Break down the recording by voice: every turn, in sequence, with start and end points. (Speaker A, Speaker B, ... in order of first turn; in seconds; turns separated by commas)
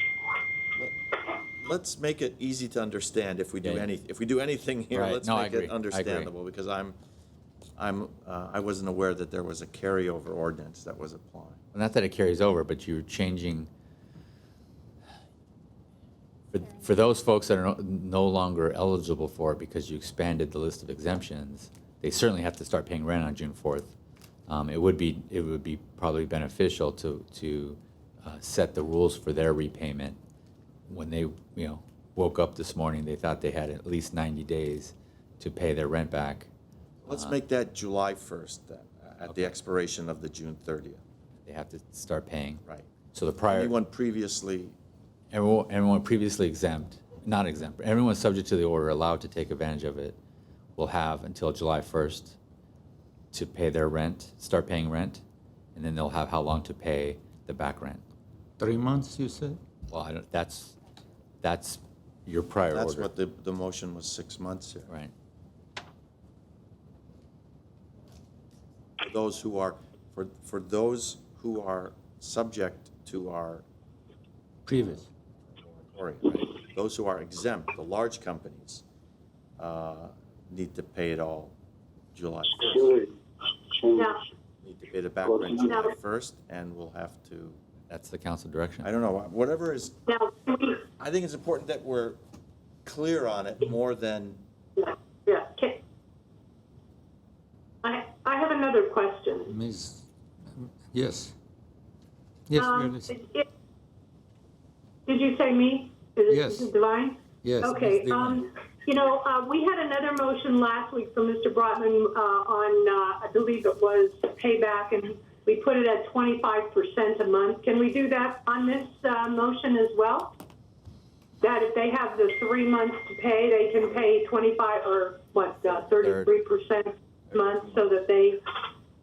Speaker A: 1.6-7.0, Speaker B: 3.6-3.9, Speaker B: 4.9-6.3, Speaker A: 7.8-11.6, Speaker B: 11.7-13.7, Speaker B: 16.5-23.9, Speaker B: 24.5-30.2, Speaker B: 30.9-36.5, Speaker A: 37.0-41.0, Speaker B: 37.1-37.4, Speaker B: 41.5-43.7, Speaker A: 43.5-44.8, Speaker B: 45.3-50.2, Speaker B: 50.8-52.4, Speaker B: 53.3-55.2, Speaker B: 55.8-58.0, Speaker C: 58.6-59.6, Speaker B: 59.9-60.8, Speaker B: 61.4-63.1, Speaker A: 62.7-64.9, Speaker A: 69.0-73.6, Speaker C: 74.7-75.0, Speaker A: 74.7-78.8, Speaker A: 79.6-81.5, Speaker A: 82.1-83.1, Speaker D: 83.9-84.2, Speaker A: 84.6-87.6, Speaker D: 85.7-85.9, Speaker B: 87.9-88.9, Speaker A: 88.8-90.0, Speaker D: 90.1-90.8, Speaker A: 90.8-92.2, Speaker A: 92.8-94.4, Speaker D: 94.8-95.8, Speaker D: 97.8-99.5, Speaker C: 99.5-101.3, Speaker C: 102.5-103.1, Speaker D: 102.6-103.5, Speaker D: 105.1-120.4, Speaker C: 106.3-106.7, Speaker C: 107.4-108.5, Speaker D: 121.4-128.4, Speaker B: 126.0-126.3